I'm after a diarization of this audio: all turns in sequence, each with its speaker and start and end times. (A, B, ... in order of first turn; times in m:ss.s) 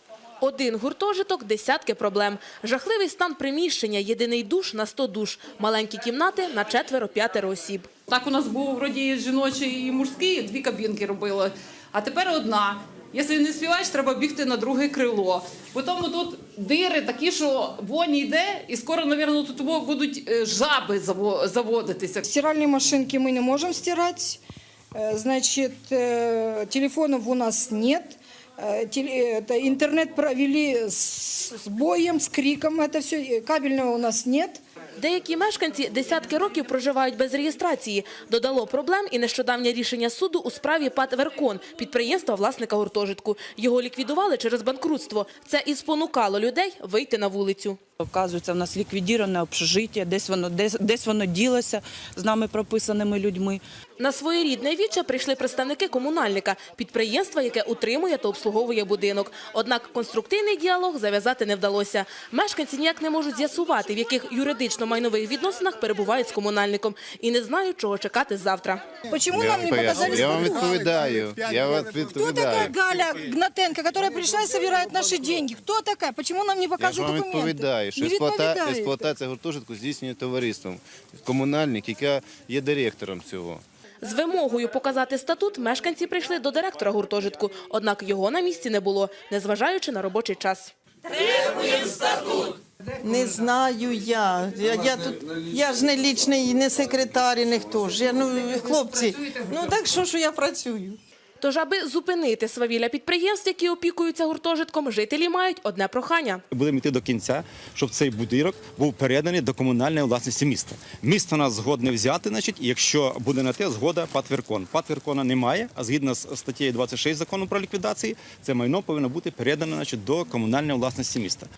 0:00.4-0:07.9 A
0:08.1-0:22.2 B
0:22.2-0:24.4 C
0:24.9-0:34.6 C
0:35.0-0:47.8 A
0:48.0-0:53.6 D
0:54.0-1:08.9 A
1:09.1-1:11.0 C
1:09.3-1:12.7 E
1:12.1-1:19.0 C
1:16.8-1:23.6 E
1:24.0-1:30.7 A
1:31.1-1:41.0 F
1:38.3-1:39.7 B
1:41.4-1:46.4 A
1:46.5-2:01.5 G